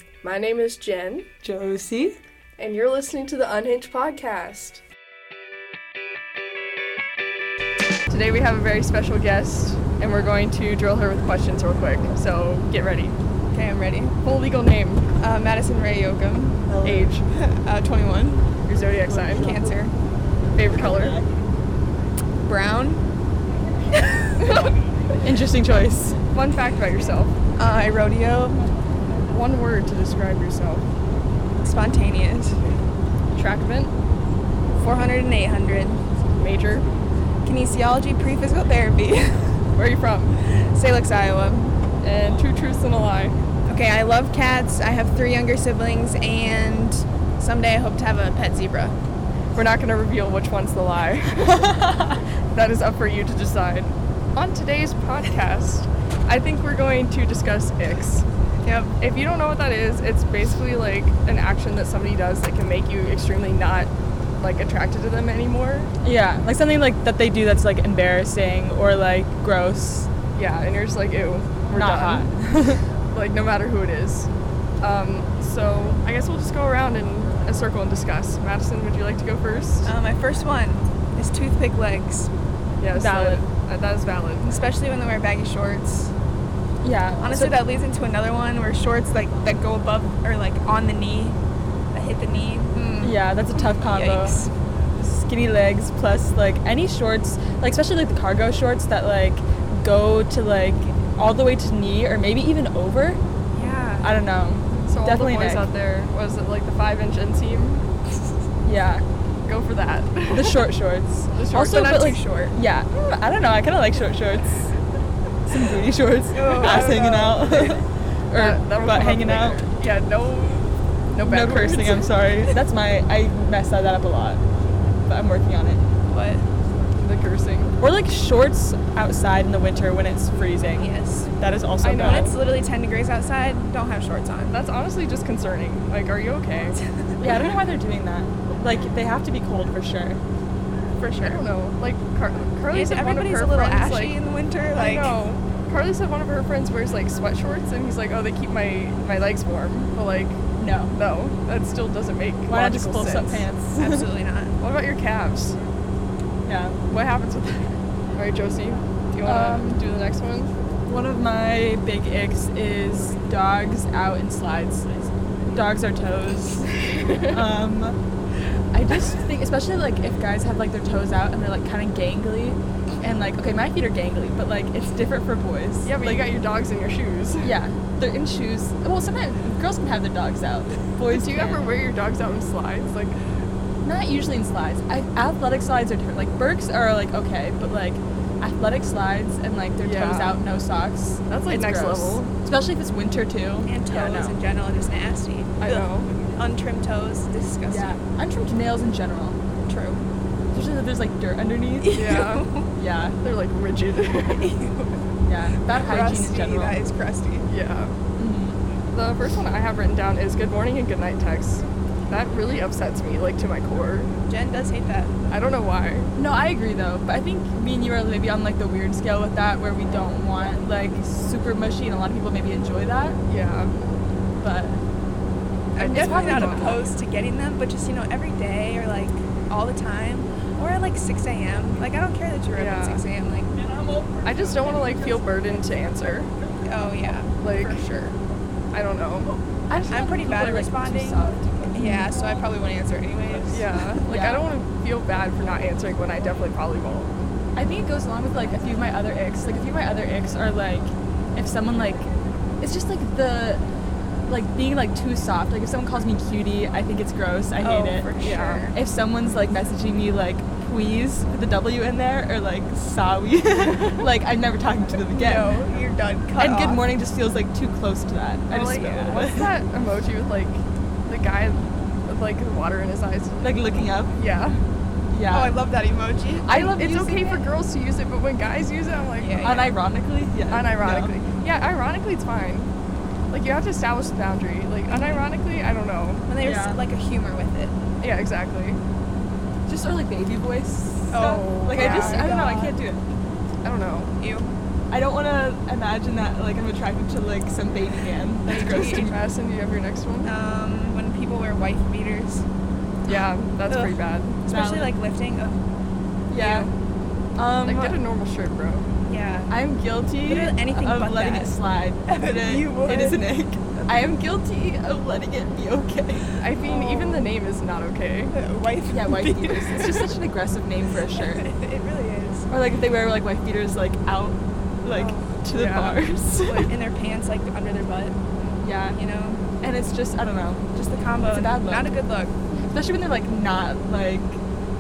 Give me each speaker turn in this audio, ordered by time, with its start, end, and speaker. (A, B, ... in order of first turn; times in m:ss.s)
0:00.2-0:01.3 A
0:01.4-0:02.2 B
0:02.6-0:04.8 A
0:08.1-0:13.2 A
0:13.5-0:14.2 C
0:14.2-0:15.1 A
0:15.2-0:16.7 C
0:16.7-0:17.1 B
0:16.8-0:17.2 A
0:17.3-0:18.5 C
0:18.7-0:19.6 A
0:19.3-0:19.9 C
0:20.5-0:21.2 A
0:22.4-0:23.0 C
0:24.4-0:24.7 A
0:25.2-0:26.2 B
0:26.3-0:27.3 A
0:27.6-0:28.7 C
0:29.3-0:30.9 A
0:31.6-0:32.6 C
0:33.3-0:33.9 A
0:34.8-0:36.0 C
0:36.4-0:36.9 A
0:37.4-0:39.6 C
0:39.8-0:40.4 A
0:40.4-0:41.8 C
0:42.0-0:43.4 A
0:43.7-0:48.9 C
0:49.6-0:58.2 A
0:58.6-0:58.9 C
0:59.0-1:05.9 A
1:06.0-1:10.1 B
1:10.3-1:12.3 A
1:11.7-1:12.8 B
1:13.1-1:14.3 A
1:14.8-1:19.9 A
1:19.8-1:22.3 C
1:22.8-1:24.5 A
1:22.9-1:23.4 B
1:24.4-1:26.1 C
1:26.8-1:27.6 B
1:27.2-1:31.4 C
1:31.9-1:33.2 C
1:33.0-1:34.4 B
1:33.8-1:34.5 C
1:35.0-1:43.2 B
1:43.5-1:44.1 C
1:44.0-1:45.7 B
1:44.9-1:47.9 A
1:48.6-1:49.0 B
1:49.4-1:50.7 A
1:50.3-1:54.7 B
1:51.3-1:52.1 A
1:51.6-1:52.5 C
1:55.4-1:59.6 B
1:56.3-1:57.4 C
1:56.6-1:57.8 A
1:58.3-2:02.6 A
2:01.2-2:04.4 B
2:05.0-2:05.8 B
2:06.1-2:06.4 C
2:07.0-2:07.8 A
2:07.8-2:12.3 B
2:10.8-2:11.3 C
2:11.8-2:12.4 A
2:12.0-2:14.6 C
2:14.5-2:16.8 A
2:17.2-2:20.2 B
2:21.0-2:21.4 C
2:21.2-2:24.2 A
2:22.7-2:25.2 C
2:24.7-2:30.4 A
2:30.6-2:31.0 B
2:30.9-2:33.4 A
2:32.5-2:34.1 B
2:33.8-2:34.6 C
2:34.6-2:35.6 A
2:36.4-2:36.8 B
2:36.9-2:40.5 A
2:39.2-2:39.8 B
2:40.9-2:44.9 B
2:45.5-2:48.0 B
2:47.0-2:47.4 A
2:48.7-2:56.3 B
2:55.8-2:57.5 A
2:57.4-3:01.7 B
3:01.1-3:03.2 A
3:03.8-3:14.4 B
3:09.8-3:10.4 A
3:11.3-3:12.3 A
3:13.7-3:18.0 C
3:15.6-3:16.1 A
3:17.7-3:19.4 B
3:19.7-3:20.0 C
3:20.5-3:22.0 B
3:21.8-3:22.7 C
3:21.9-3:22.6 A
3:22.8-3:23.2 B
3:23.2-3:24.6 A
3:24.3-3:25.0 C
3:25.3-3:26.8 B
3:25.7-3:27.5 C
3:27.5-3:27.9 A
3:28.2-3:28.6 B
3:28.9-3:34.1 A
3:34.3-3:35.1 C
3:35.3-3:36.1 A
3:36.2-3:43.2 B
3:43.3-3:43.9 A
3:44.4-3:44.8 B
3:45.8-3:53.5 C
3:45.8-3:46.8 A
3:45.8-3:46.8 B
3:52.6-3:53.0 A
3:54.2-3:56.3 A
3:56.7-3:58.2 C
3:57.4-3:57.8 A
3:58.7-3:59.3 A
3:59.7-4:02.0 B
3:59.9-4:03.8 C
4:03.5-4:07.1 A
4:04.1-4:04.4 B
4:07.6-4:12.1 B
4:12.6-4:13.6 B
4:14.3-4:18.1 B
4:17.6-4:18.7 C
4:18.2-4:18.7 A
4:18.7-4:25.5 B
4:25.1-4:26.9 C
4:26.4-4:29.5 B
4:28.5-4:33.4 A
4:33.4-4:34.1 B
4:34.2-4:34.6 A
4:35.1-4:35.6 B
4:35.3-4:36.9 C
4:36.4-4:37.4 B
4:36.6-4:39.8 A
4:39.2-4:39.7 C
4:39.4-4:41.1 B
4:40.5-4:42.7 A
4:43.3-4:46.2 A
4:46.3-4:47.8 C
4:46.4-4:46.8 B
4:48.0-4:48.8 A
4:49.7-4:53.0 B
4:51.1-4:52.8 C
4:51.6-4:52.3 A
4:53.6-4:54.1 A
4:54.2-4:54.5 C
4:54.9-4:59.2 B
4:58.4-4:59.1 C
4:58.6-5:00.3 A
5:00.2-5:02.4 C
5:03.1-5:04.4 A
5:03.7-5:05.6 C
5:04.5-5:04.9 B
5:06.3-5:06.7 B
5:06.4-5:06.7 A
5:07.4-5:08.0 B
5:07.6-5:08.9 A
5:09.0-5:09.5 C
5:09.5-5:16.3 B
5:10.2-5:11.5 C
5:12.1-5:13.2 C
5:16.4-5:18.3 A
5:16.6-5:17.3 C
5:18.3-5:19.8 C
5:18.9-5:21.4 B
5:19.7-5:20.0 A
5:21.2-5:22.5 C
5:22.5-5:26.7 B
5:24.9-5:25.3 C
5:25.5-5:26.7 A
5:26.4-5:28.2 C
5:28.6-5:29.0 B
5:28.9-5:29.4 C
5:29.6-5:30.7 B
5:30.8-5:32.3 C
5:31.2-5:31.9 B
5:32.5-5:34.4 B